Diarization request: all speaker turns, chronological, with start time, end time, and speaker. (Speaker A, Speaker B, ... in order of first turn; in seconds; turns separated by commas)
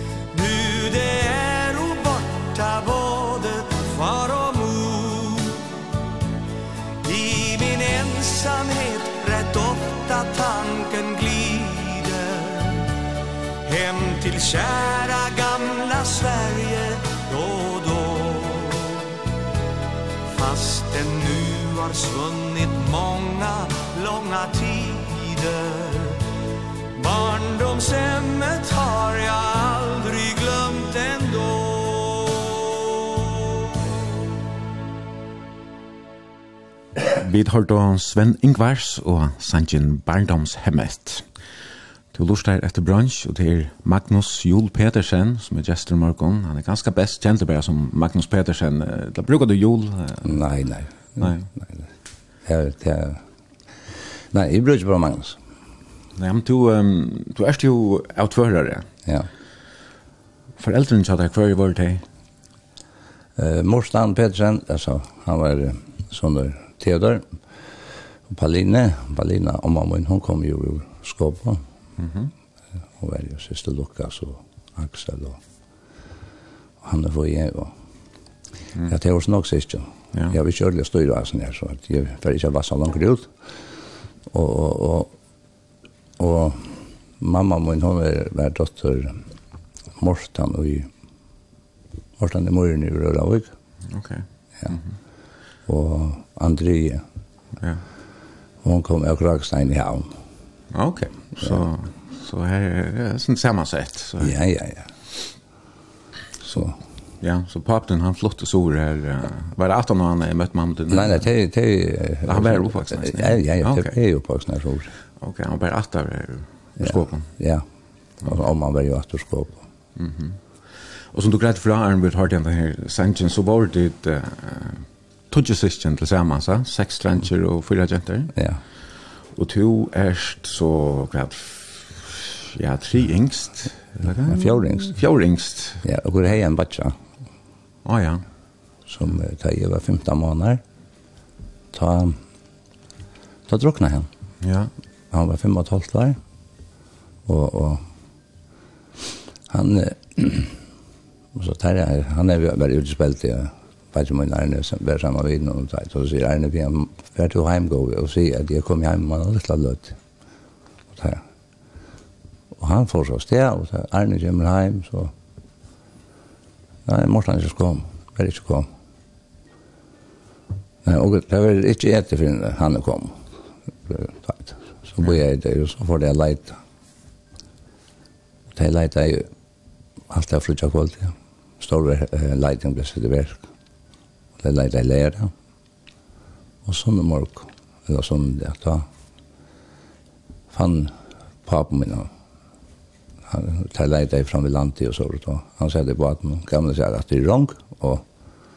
Speaker A: 0.3-5.7, Speaker A: 7.0-12.9, Speaker A: 13.7-19.1, Speaker A: 20.3-26.2, Speaker A: 26.9-33.2, Speaker B: 37.1-41.3, Speaker B: 42.1-50.4, Speaker C: 50.2-51.8, Speaker B: 51.2-51.5, Speaker C: 52.5-53.2, Speaker C: 54.3-55.4, Speaker B: 56.1-58.9, Speaker B: 60.6-62.0, Speaker C: 63.4-67.3, Speaker C: 68.3-71.6, Speaker B: 72.0-72.3, Speaker C: 73.0-75.4, Speaker C: 76.8-77.7, Speaker C: 78.9-83.3, Speaker C: 84.3-85.1, Speaker C: 86.2-89.2, Speaker C: 90.0-90.9, Speaker C: 92.2-93.5, Speaker B: 93.9-94.8, Speaker C: 95.7-97.0, Speaker C: 98.6-100.1, Speaker B: 100.7-104.4, Speaker C: 104.2-104.9, Speaker C: 106.4-106.8, Speaker B: 107.2-111.2, Speaker C: 110.9-114.9, Speaker B: 112.2-114.0, Speaker B: 115.2-117.3, Speaker C: 116.8-117.6, Speaker C: 118.2-119.6, Speaker B: 120.0-120.4, Speaker B: 121.1-128.3, Speaker C: 128.3-128.6, Speaker B: 129.3-135.8, Speaker C: 134.3-135.0, Speaker C: 135.8-136.9, Speaker B: 137.8-138.2, Speaker C: 138.9-140.6, Speaker C: 141.7-142.2, Speaker C: 143.5-144.1, Speaker B: 144.4-144.7, Speaker C: 145.1-146.2, Speaker C: 147.2-147.8, Speaker C: 149.5-150.6, Speaker C: 151.3-160.0, Speaker C: 160.9-161.2, Speaker C: 162.5-165.1, Speaker C: 166.8-168.7, Speaker C: 170.8-173.2, Speaker C: 173.9-176.6, Speaker C: 178.5-179.3, Speaker C: 180.1-183.4, Speaker C: 184.4-185.3, Speaker C: 186.6-188.9, Speaker C: 190.5-190.9, Speaker C: 191.4-192.1, Speaker C: 193.3-198.0